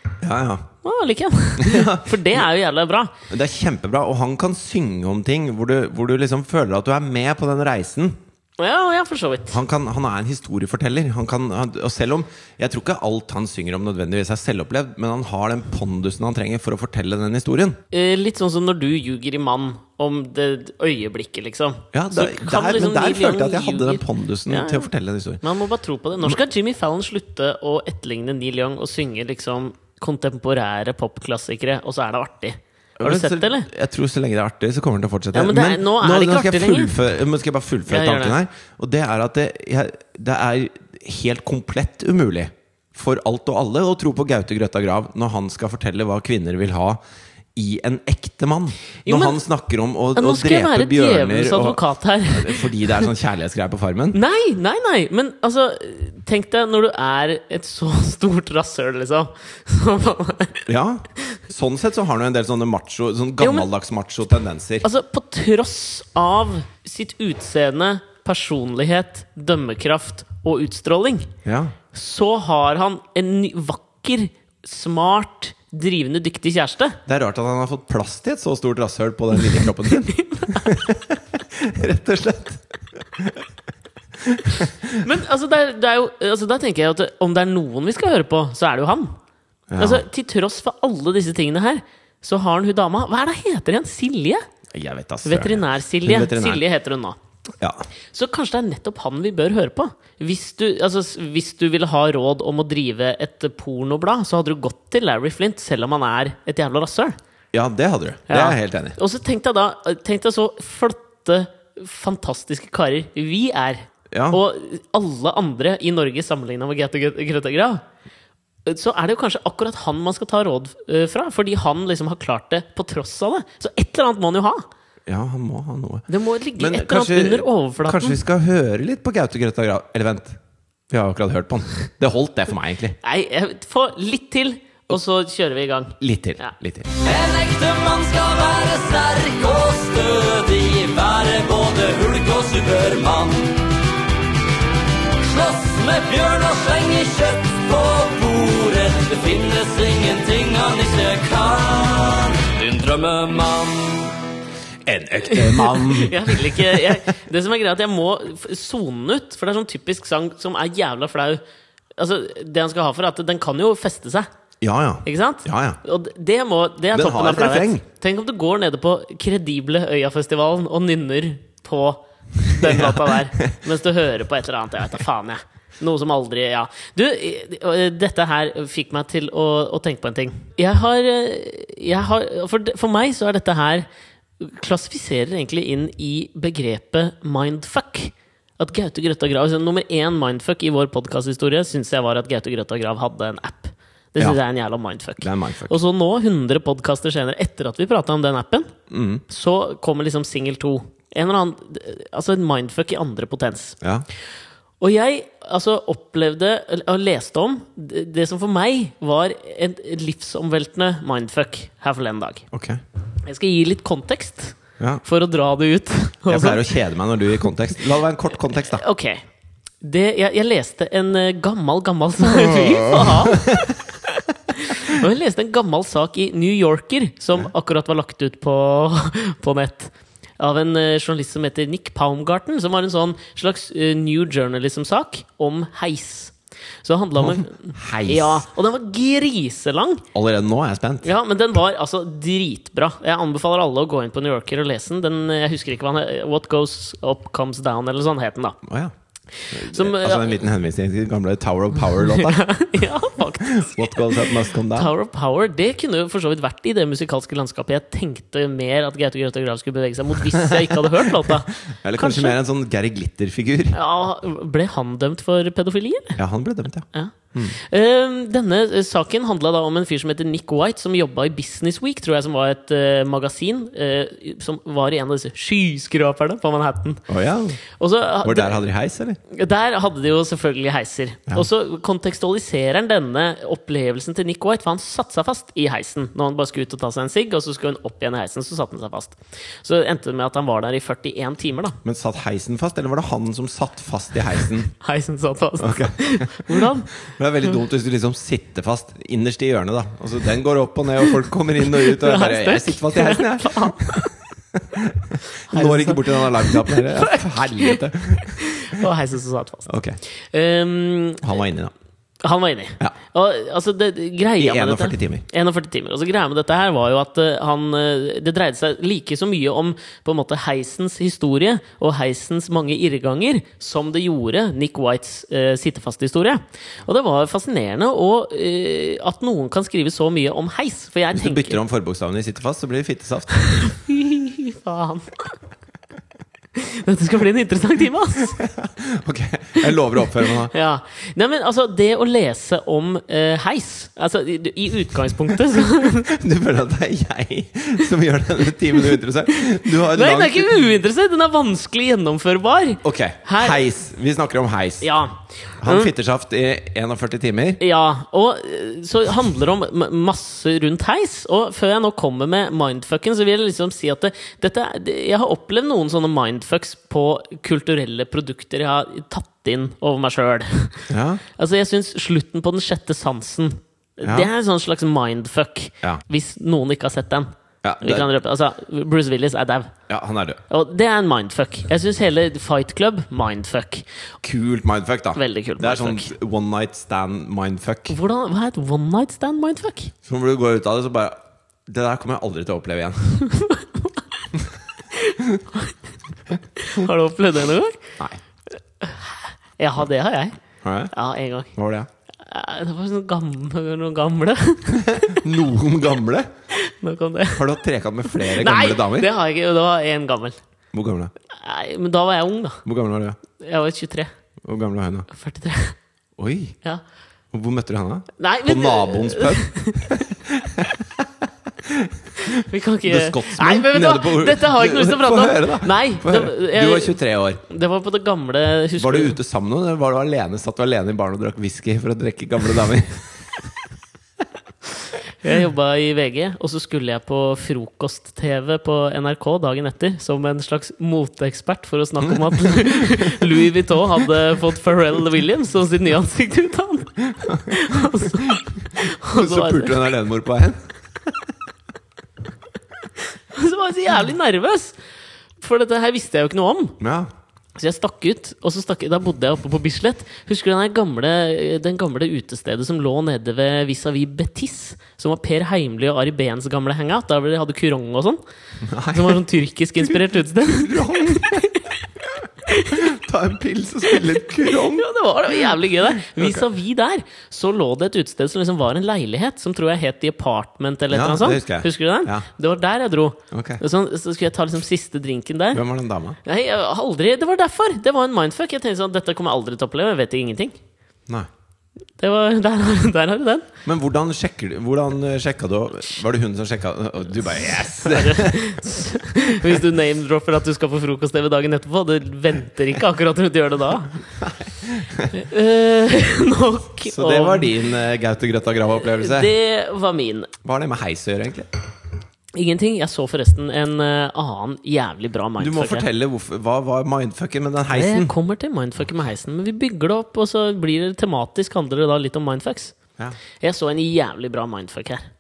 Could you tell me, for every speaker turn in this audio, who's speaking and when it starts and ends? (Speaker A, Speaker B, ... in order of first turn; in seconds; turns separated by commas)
Speaker A: 0.2-0.7, Speaker B: 0.8-3.1, Speaker A: 1.6-2.4, Speaker A: 3.3-8.2, Speaker B: 8.6-9.6, Speaker A: 9.5-17.8, Speaker B: 17.9-24.9, Speaker A: 21.9-25.4, Speaker B: 25.4-33.7, Speaker A: 33.0-47.0, Speaker B: 35.3-36.9, Speaker B: 37.9-38.4, Speaker A: 47.5-54.2, Speaker B: 49.1-49.4, Speaker B: 50.1-53.0, Speaker B: 54.1-60.7, Speaker A: 60.7-64.8, Speaker B: 63.4-63.7, Speaker B: 64.8-71.3, Speaker A: 71.4-71.7, Speaker B: 71.9-77.0, Speaker A: 77.0-83.5, Speaker B: 80.1-80.7, Speaker A: 84.2-85.0, Speaker B: 85.0-89.2, Speaker A: 89.7-90.0, Speaker B: 89.8-94.4, Speaker A: 94.7-96.6, Speaker B: 95.2-97.2, Speaker A: 97.6-97.8, Speaker B: 98.1-107.2, Speaker A: 107.5-109.0, Speaker B: 108.3-117.8, Speaker A: 114.1-114.4, Speaker B: 118.7-124.7, Speaker A: 125.0-130.4, Speaker B: 126.1-128.2, Speaker A: 130.9-132.9, Speaker B: 133.0-136.5, Speaker A: 136.0-136.9, Speaker C: 137.0-143.6, Speaker C: 145.2-154.1, Speaker A: 154.8-157.0, Speaker B: 155.2-161.4, Speaker B: 162.0-164.3, Speaker A: 164.6-165.8, Speaker B: 165.0-183.9, Speaker A: 166.9-167.8, Speaker A: 172.6-173.6, Speaker B: 184.4-198.7, Speaker A: 195.2-195.8, Speaker A: 198.9-199.2, Speaker B: 199.3-203.8, Speaker B: 204.8-212.4, Speaker A: 212.5-212.8, Speaker B: 213.2-216.7, Speaker A: 216.3-218.8, Speaker B: 218.6-219.2, Speaker B: 219.8-240.0, Speaker A: 222.3-223.7, Speaker A: 237.2-238.4, Speaker A: 240.1-241.1, Speaker B: 241.0-248.6, Speaker A: 248.6-248.9, Speaker B: 249.4-250.4, Speaker A: 249.5-252.5, Speaker B: 252.0-262.4, Speaker A: 253.4-254.9, Speaker A: 260.4-263.8, Speaker B: 263.7-266.2, Speaker A: 266.1-267.6, Speaker B: 266.9-277.0, Speaker A: 277.1-277.6, Speaker B: 277.8-278.7, Speaker A: 278.2-279.2, Speaker B: 279.3-291.8, Speaker A: 291.8-294.7, Speaker B: 294.8-296.9, Speaker A: 295.6-308.8, Speaker B: 301.7-304.1, Speaker B: 305.5-307.8, Speaker B: 308.4-309.7, Speaker A: 309.7-310.0, Speaker B: 310.3-311.2, Speaker A: 311.2-311.7, Speaker B: 312.2-331.6, Speaker A: 314.4-315.2, Speaker A: 331.1-333.7, Speaker B: 333.6-335.4, Speaker B: 336.5-338.4, Speaker A: 338.4-340.5, Speaker B: 340.5-346.1, Speaker A: 346.0-350.7, Speaker B: 349.5-353.6, Speaker A: 352.8-354.9, Speaker B: 354.8-355.9, Speaker A: 355.6-357.6, Speaker B: 357.6-377.3, Speaker A: 370.9-371.2, Speaker A: 374.0-374.3, Speaker A: 377.6-378.1, Speaker B: 377.8-379.7, Speaker A: 379.9-380.4, Speaker B: 380.5-383.9, Speaker A: 384.2-388.0, Speaker B: 385.1-386.1, Speaker B: 387.9-389.9, Speaker A: 390.0-393.2, Speaker B: 393.3-393.6, Speaker B: 394.9-395.7, Speaker B: 396.6-397.9, Speaker B: 398.8-400.4, Speaker A: 400.6-400.9, Speaker B: 400.9-401.5, Speaker A: 401.5-401.9, Speaker B: 402.2-405.2, Speaker A: 404.7-406.3, Speaker B: 406.5-407.4, Speaker A: 407.3-409.1, Speaker B: 408.1-410.4, Speaker A: 410.7-411.1, Speaker B: 411.3-412.6, Speaker A: 412.6-413.2, Speaker B: 413.4-414.1, Speaker A: 414.4-415.1, Speaker B: 415.1-415.8, Speaker A: 416.2-416.6, Speaker A: 417.3-421.1, Speaker B: 418.2-420.1, Speaker A: 421.6-427.4, Speaker B: 422.2-429.2, Speaker A: 428.8-433.2, Speaker B: 435.2-449.8, Speaker A: 442.1-443.2, Speaker A: 447.2-448.4, Speaker A: 449.1-450.6, Speaker B: 453.3-454.8, Speaker B: 455.4-456.8, Speaker A: 456.8-457.1, Speaker B: 457.6-468.2, Speaker A: 468.6-469.2, Speaker B: 468.9-471.7, Speaker A: 469.8-471.5, Speaker B: 472.5-472.9, Speaker A: 472.7-474.9, Speaker B: 473.9-485.6, Speaker A: 476.0-476.4, Speaker A: 480.9-482.3, Speaker A: 483.3-483.6, Speaker A: 485.5-486.2, Speaker B: 486.2-490.6, Speaker B: 492.0-493.5, Speaker A: 493.6-498.4, Speaker B: 497.8-504.0, Speaker A: 504.2-505.1, Speaker B: 505.1-507.6, Speaker A: 506.8-509.3, Speaker B: 508.8-510.3, Speaker A: 510.4-511.5, Speaker B: 512.3-515.9, Speaker A: 515.4-518.1, Speaker B: 517.7-522.8, Speaker B: 523.4-525.1